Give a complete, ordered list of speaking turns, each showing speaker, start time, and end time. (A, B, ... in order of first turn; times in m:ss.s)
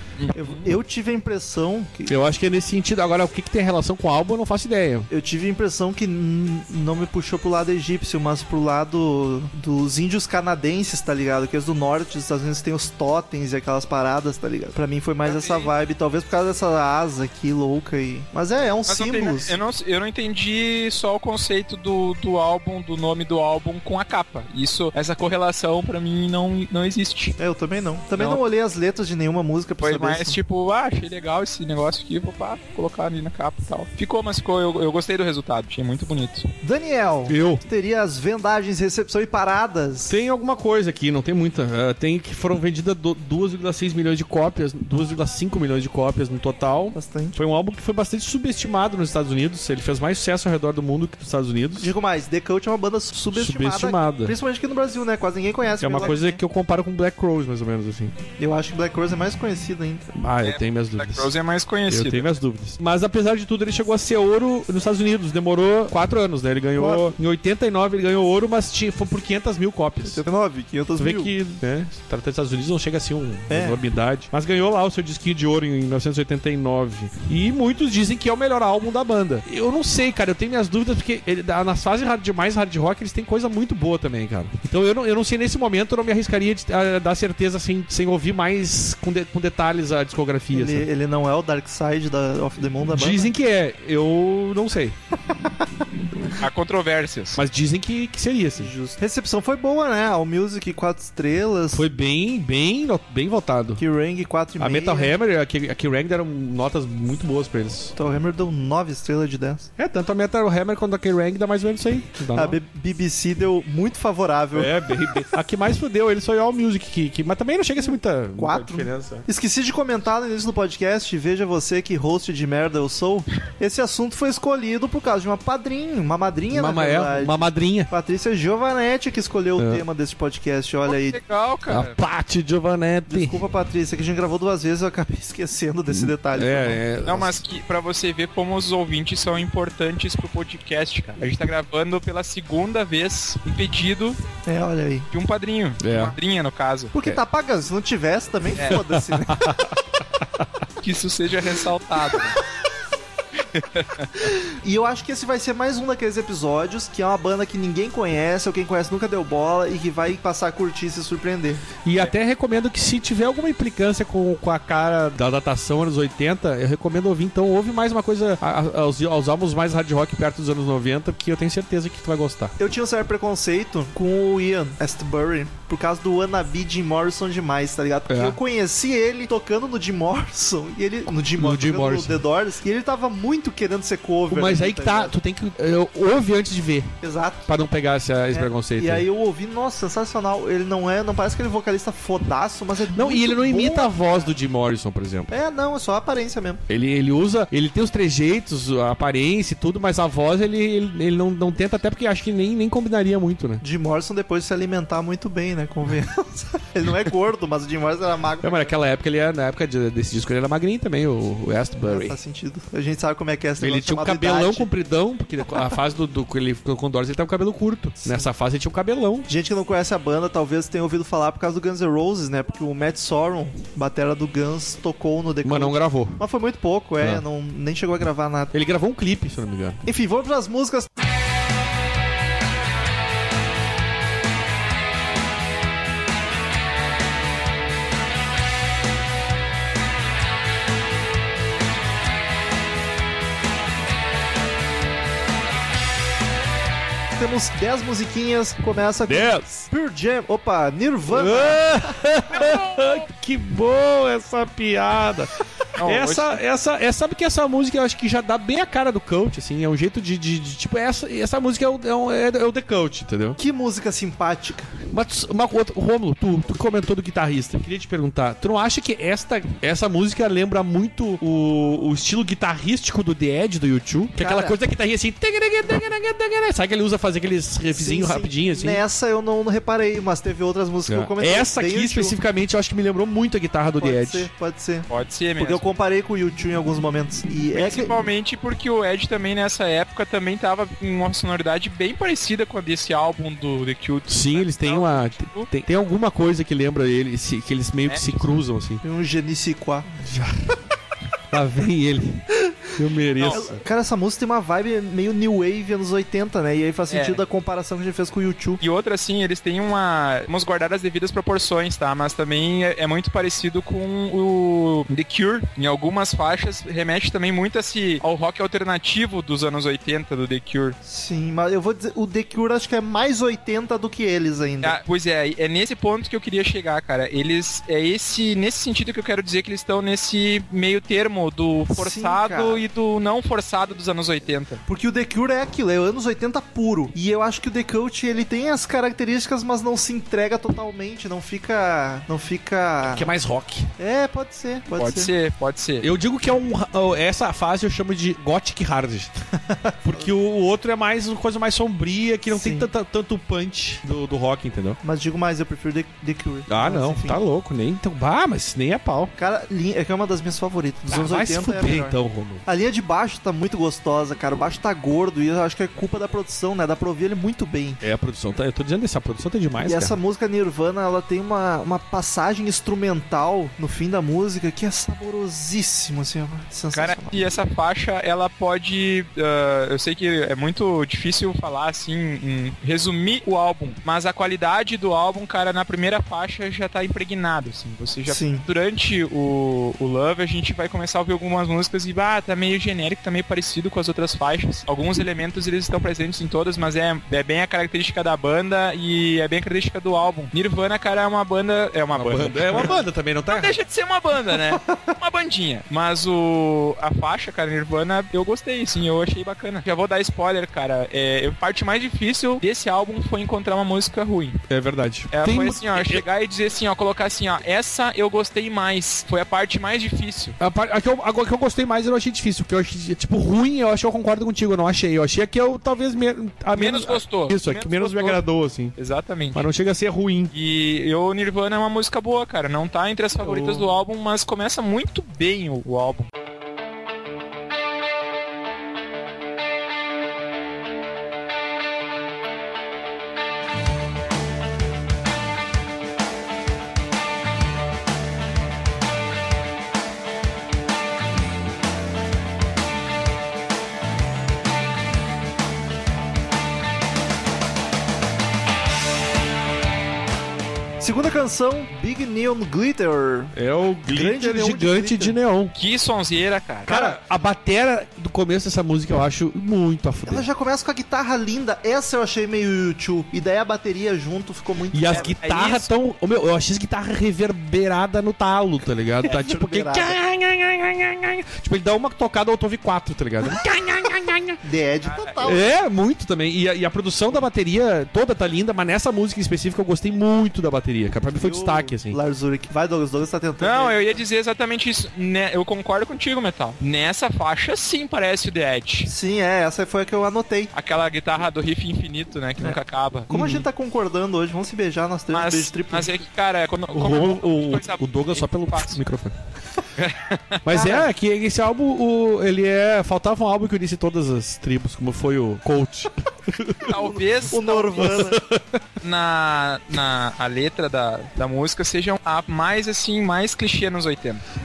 0:00.2-0:00.7 A
0:00.4-0:02.1 B
0:02.1-0:05.1 C
0:05.1-0:19.6 B
0:15.2-0:15.7 A
0:18.9-0:27.4 A
0:27.4-0:30.4 B
0:29.8-0:36.5 A
0:36.6-0:40.1 B
0:37.3-0:37.6 C
0:40.1-0:51.9 C
0:47.0-0:47.4 B
0:51.8-0:56.4 B
0:53.3-0:54.4 C
0:55.8-0:58.2 C
0:58.4-1:00.1 B
1:00.2-1:01.3 C
1:00.4-1:02.3 A
1:01.9-1:10.2 C
1:06.8-1:07.1 B
1:10.0-1:11.4 B
1:11.0-1:30.9 C
1:13.5-1:13.8 B
1:30.5-1:33.3 B
1:32.9-1:35.0 C
1:36.4-1:37.4 A
1:37.4-1:38.7 C
1:38.6-1:41.8 B
1:41.7-1:43.8 C
1:43.8-1:45.1 B
1:44.6-1:47.9 C
1:48.0-1:49.7 B
1:49.8-1:52.6 C
1:52.4-1:54.7 B
1:54.5-1:59.2 C
1:58.4-2:11.2 B
2:06.5-2:07.9 C
2:09.6-2:09.8 C
2:10.9-2:12.0 A
2:11.7-2:13.4 C
2:13.1-2:16.8 B
2:15.9-2:17.4 C
2:17.0-2:24.2 A
2:24.5-2:25.1 B
2:25.1-2:26.9 A
2:25.8-2:26.2 C
2:26.9-2:29.5 B
2:28.7-2:30.5 C
2:30.8-2:32.4 A
2:33.5-2:34.3 A
2:34.4-2:41.6 B
2:41.8-2:52.5 C
2:52.6-3:05.1 B
2:58.1-2:58.4 C
3:01.4-3:02.2 C
3:04.3-3:07.0 C
3:07.0-3:07.5 B
3:07.5-3:09.0 C
3:08.3-3:13.9 B
3:12.9-3:15.3 C
3:15.3-3:16.6 B
3:16.7-3:23.6 C
3:23.6-3:28.7 B
3:28.4-3:32.2 C
3:31.8-3:34.7 B
3:33.6-3:39.3 C
3:39.3-3:48.5 B
3:45.4-3:46.2 C
3:48.5-3:49.8 C
3:49.9-3:50.9 B
4:07.2-4:12.5 B
4:09.0-4:09.7 C
4:11.1-4:23.4 C
4:15.8-4:16.4 A
4:23.4-4:24.8 B
4:24.9-4:38.8 C
4:34.2-4:34.6 B
4:37.8-4:42.2 B
4:40.9-4:44.3 C
4:43.8-4:47.9 B
4:44.9-4:45.7 A
4:47.5-4:55.5 A
4:54.1-4:58.8 C
4:57.8-4:58.3 A
4:58.8-4:59.9 B
5:00.0-5:00.6 C
5:01.3-5:03.6 C
5:03.3-5:08.6 B
5:06.9-5:07.2 A
5:08.6-5:20.8 A
5:20.8-5:24.8 B
5:24.6-5:34.6 A
5:31.7-5:32.6 B
5:34.7-5:43.1 B
5:42.8-5:43.7 C
5:43.8-5:45.1 B
5:44.8-5:45.9 A
5:45.8-5:49.2 C
5:49.5-5:50.1 B
5:49.8-5:54.8 C
5:52.3-5:52.7 B
5:54.8-5:57.2 B
5:56.5-5:59.1 C
5:59.2-6:07.8 B
6:00.9-6:02.4 C
6:07.8-6:10.0 C
6:09.7-6:17.2 B
6:16.7-6:54.4 A
6:28.1-6:28.5 B
6:41.9-6:43.6 C
6:44.3-6:44.8 B
6:54.5-6:56.0 C
6:55.1-7:00.4 A
7:00.4-7:08.8 C
7:06.5-7:08.2 A
7:08.8-7:09.5 A
7:09.3-7:10.3 C
7:10.3-7:16.1 A
7:13.2-7:13.7 C
7:40.8-7:43.3 B
7:43.3-7:45.5 C
7:43.9-7:45.2 B
7:45.5-7:46.7 A
7:46.7-7:50.3 C
7:46.7-7:47.0 B
7:50.1-7:55.2 B
7:54.7-8:04.4 C
7:54.9-7:55.7 A
7:59.0-8:00.0 B
8:04.4-8:05.5 B
8:04.8-8:05.3 A
8:05.2-8:12.0 C
8:11.2-8:14.0 B
8:13.4-8:18.9 A
8:18.9-8:20.5 B
8:20.5-8:23.1 A
8:22.4-8:25.9 B
8:23.1-8:23.4 C
8:25.1-8:28.8 A
8:26.7-8:29.2 C
8:29.8-8:30.4 A
8:30.4-8:36.8 C
8:30.5-8:30.9 B
8:36.7-8:37.9 A
8:36.8-8:38.2 B
8:37.8-8:38.6 C
8:38.8-8:44.2 A